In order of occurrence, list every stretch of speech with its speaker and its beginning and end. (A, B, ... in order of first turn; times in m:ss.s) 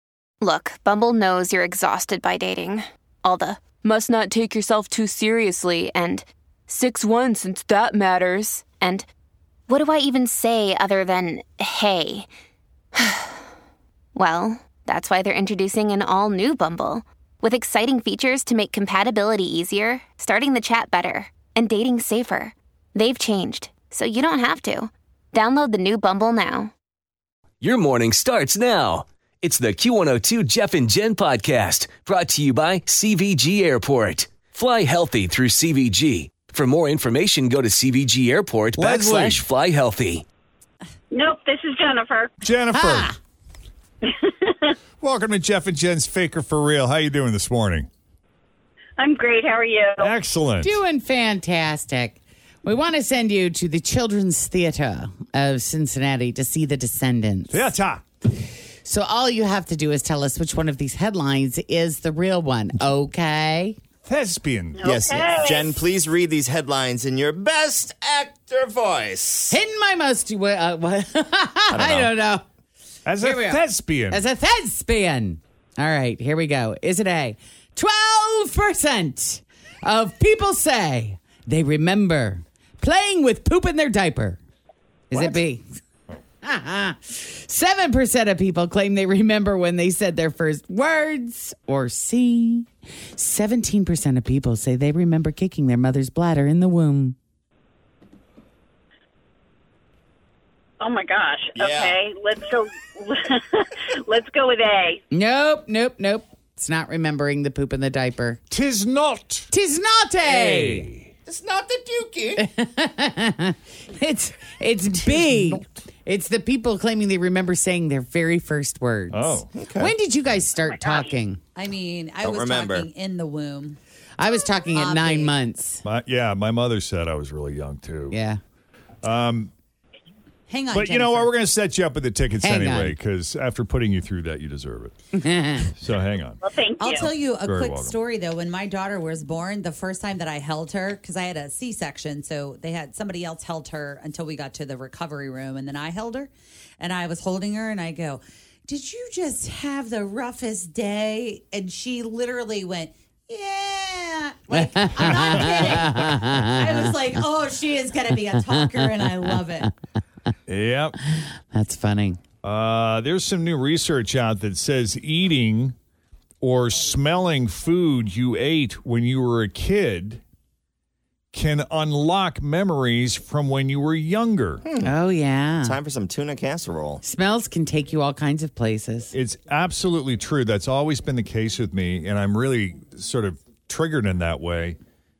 0:00.4-0:09.0 A
0:09.7-0:12.3 A
0:13.0-0:13.4 A
0:14.1-0:26.7 A
0:27.6-0:40.2 B
0:38.8-0:39.4 C
0:41.1-0:42.3 D
0:42.4-0:43.2 C
0:42.7-0:43.1 E
0:44.0-0:44.7 D
0:45.0-0:47.9 C
0:49.0-0:50.1 D
0:50.0-0:50.8 C
0:50.6-0:57.6 E
0:57.5-0:58.0 C
0:58.8-1:03.8 E
1:04.0-1:04.9 C
1:04.8-1:05.8 D
1:04.8-1:09.6 F
1:09.5-1:12.4 E
1:11.7-1:12.1 F
1:13.0-1:14.2 C
1:13.2-1:24.4 E
1:25.1-1:25.6 E
1:26.4-1:37.2 E
1:40.8-1:45.0 D
1:41.5-1:42.0 F
1:45.1-1:48.4 E
1:48.5-1:49.5 C
1:49.5-1:50.9 E
1:50.3-1:51.1 C
1:51.2-1:52.4 F
1:52.4-2:01.4 E
1:55.1-1:55.6 C
1:59.1-1:59.5 C
1:59.5-1:59.9 F
2:00.8-2:01.1 D
2:01.5-2:03.8 G
2:02.2-2:02.9 F
2:04.2-2:05.8 E
2:04.7-2:05.3 G
2:05.8-2:08.2 C
2:08.1-2:08.4 E
2:09.0-2:09.5 C
2:10.5-2:11.3 G
2:10.7-2:14.9 C
2:12.4-2:12.9 E
2:15.1-2:15.7 E
2:15.7-2:16.4 C
2:16.4-2:17.1 D
2:16.8-2:39.7 G
2:17.1-2:17.9 C
2:34.5-2:36.9 E
2:40.5-2:41.0 C
2:41.2-2:42.2 E
2:42.4-2:45.8 C
2:46.4-2:50.2 C
2:51.3-2:54.6 C
2:54.6-2:54.9 F
2:54.8-2:55.8 E
2:55.6-2:57.0 F
2:57.0-2:59.1 E
2:59.1-3:04.8 C